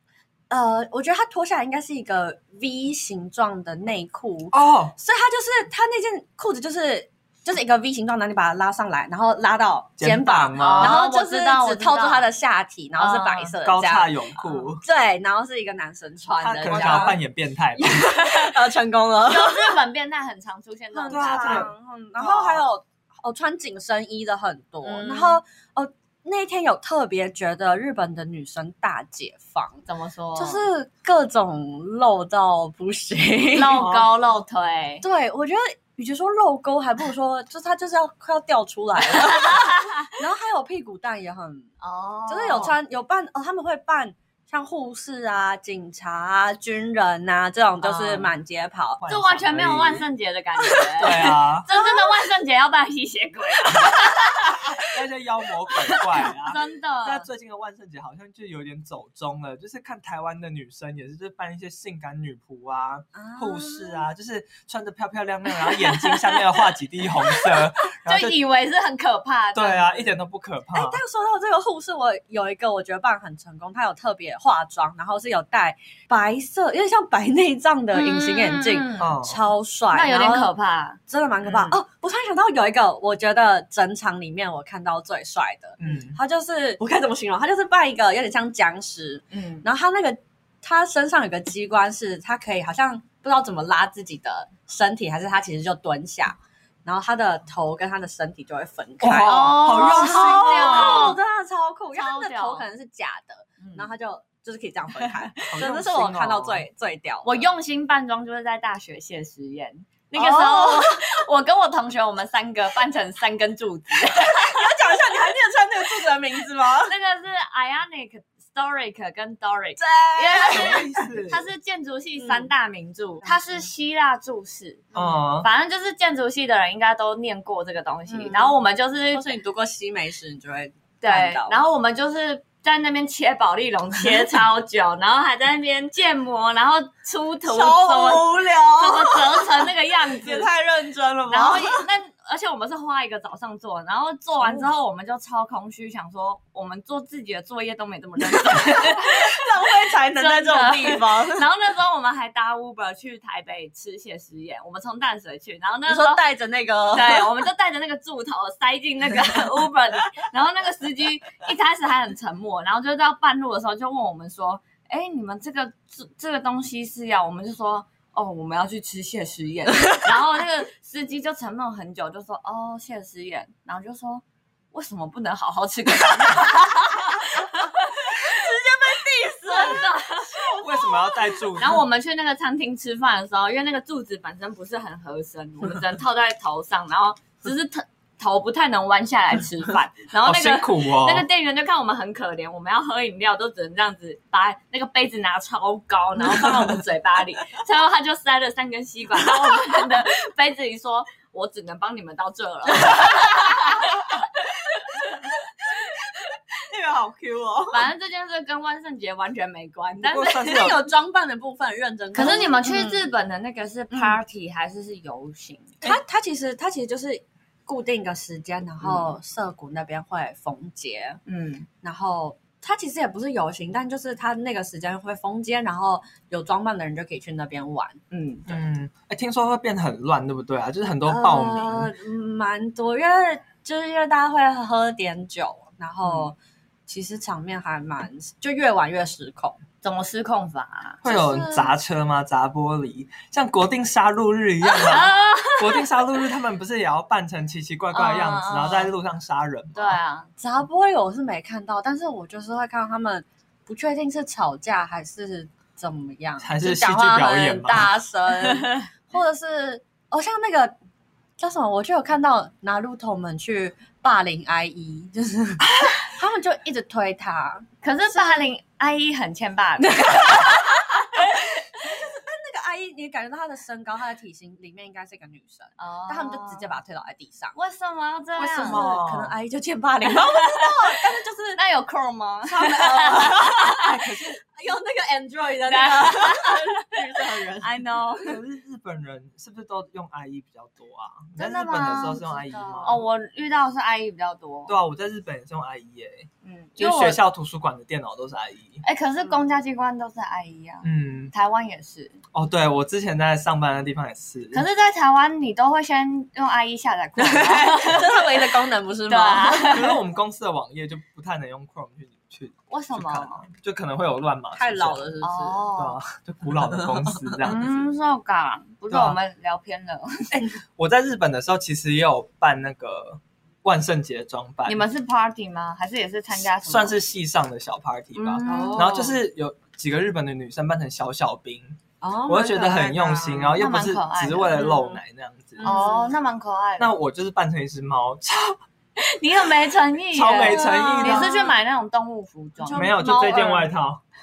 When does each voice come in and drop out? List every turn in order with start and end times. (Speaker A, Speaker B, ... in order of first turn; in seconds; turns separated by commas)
Speaker A: 0.5-17.2, Speaker B: 4.5-5.0, Speaker B: 10.0-11.0, Speaker C: 10.6-12.3, Speaker C: 13.0-13.6, Speaker B: 13.6-14.8, Speaker B: 16.4-18.1, Speaker C: 16.8-17.1, Speaker A: 17.8-19.8, Speaker C: 18.0-18.4, Speaker C: 19.2-21.7, Speaker A: 20.9-29.8, Speaker B: 21.1-22.6, Speaker C: 24.8-25.4, Speaker C: 29.9-30.7, Speaker A: 30.4-33.9, Speaker C: 33.5-35.0, Speaker B: 33.8-34.1, Speaker A: 35.0-41.7, Speaker C: 39.1-40.1, Speaker C: 41.8-42.8, Speaker A: 42.3-49.0, Speaker C: 47.8-48.3, Speaker B: 49.0-50.1, Speaker C: 49.1-54.9, Speaker B: 51.0-51.7, Speaker B: 54.8-68.4, Speaker C: 55.9-57.3, Speaker A: 63.1-64.1, Speaker C: 68.1-70.1, Speaker B: 69.5-71.0, Speaker A: 70.7-80.5, Speaker C: 77.9-79.2, Speaker B: 79.0-79.4, Speaker C: 79.9-81.0, Speaker A: 81.1-107.5, Speaker B: 85.8-86.2, Speaker C: 89.3-89.7, Speaker B: 99.0-101.2, Speaker C: 99.2-101.2, Speaker C: 101.9-102.7, Speaker C: 103.6-103.9, Speaker B: 105.5-106.7, Speaker C: 107.2-114.7, Speaker A: 110.2-111.2, Speaker A: 114.5-116.9, Speaker C: 116.8-129.3, Speaker A: 119.8-121.1, Speaker B: 120.4-121.4, Speaker A: 122.2-122.5, Speaker A: 123.2-123.7, Speaker B: 124.9-125.5, Speaker A: 128.1-128.6, Speaker A: 129.1-131.6, Speaker C: 131.0-140.5, Speaker A: 137.4-141.8, Speaker C: 141.3-149.5, Speaker A: 144.4-144.7, Speaker A: 148.3-151.5, Speaker C: 150.1-156.3, Speaker A: 155.9-157.3, Speaker C: 156.9-178.5, Speaker A: 178.1-181.4, Speaker C: 179.4-180.6, Speaker B: 180.6-181.8, Speaker C: 181.6-206.3, Speaker B: 190.2-191.3, Speaker A: 202.9-203.8, Speaker A: 206.6-207.9, Speaker C: 207.7-210.7, Speaker B: 210.0-210.8, Speaker A: 210.3-213.1, Speaker C: 212.1-215.8, Speaker A: 213.9-214.2, Speaker A: 215.8-221.2, Speaker C: 221.3-221.7, Speaker A: 221.8-228.0, Speaker C: 228.1-228.6, Speaker B: 228.5-231.9, Speaker A: 231.1-236.4, Speaker A: 236.9-239.6, Speaker C: 239.8-241.0, Speaker B: 241.0-250.0, Speaker A: 241.0-241.7, Speaker C: 244.6-245.9, Speaker C: 247.9-248.9, Speaker C: 249.8-250.3, Speaker A: 250.4-260.8, Speaker B: 256.4-257.9, Speaker A: 261.4-268.5, Speaker B: 265.7-266.0, Speaker C: 267.8-271.4, Speaker A: 269.8-277.6, Speaker C: 275.8-276.8, Speaker C: 277.6-279.0, Speaker A: 278.4-281.6, Speaker B: 278.6-279.4, Speaker C: 280.1-281.0, Speaker C: 281.6-283.9, Speaker A: 282.5-287.8, Speaker B: 283.8-284.4, Speaker C: 285.7-287.0, Speaker C: 287.6-288.4, Speaker B: 288.2-293.0, Speaker C: 291.4-294.7, Speaker A: 292.6-292.8, Speaker B: 294.7-296.3, Speaker C: 296.4-297.2, Speaker B: 296.8-298.8, Speaker C: 298.8-302.2, Speaker B: 300.8-301.3, Speaker B: 302.3-304.6, Speaker C: 304.5-308.3, Speaker A: 307.2-310.0, Speaker C: 309.1-310.0, Speaker B: 309.7-315.1, Speaker C: 312.7-313.4, Speaker A: 314.6-315.7, Speaker C: 315.2-316.0, Speaker B: 315.8-317.8, Speaker A: 316.8-317.2, Speaker C: 317.4-320.3, Speaker B: 318.9-319.2, Speaker B: 320.3-324.9, Speaker C: 324.7-327.0, Speaker B: 326.5-335.8, Speaker C: 328.1-329.0, Speaker A: 328.4-329.2, Speaker A: 332.0-333.6, Speaker C: 333.6-335.0, Speaker A: 335.6-336.1, Speaker C: 335.6-336.9, Speaker B: 336.8-338.6, Speaker C: 339.0-343.7, Speaker B: 340.1-341.4, Speaker A: 340.4-341.5, Speaker A: 342.6-343.4, Speaker B: 342.7-344.0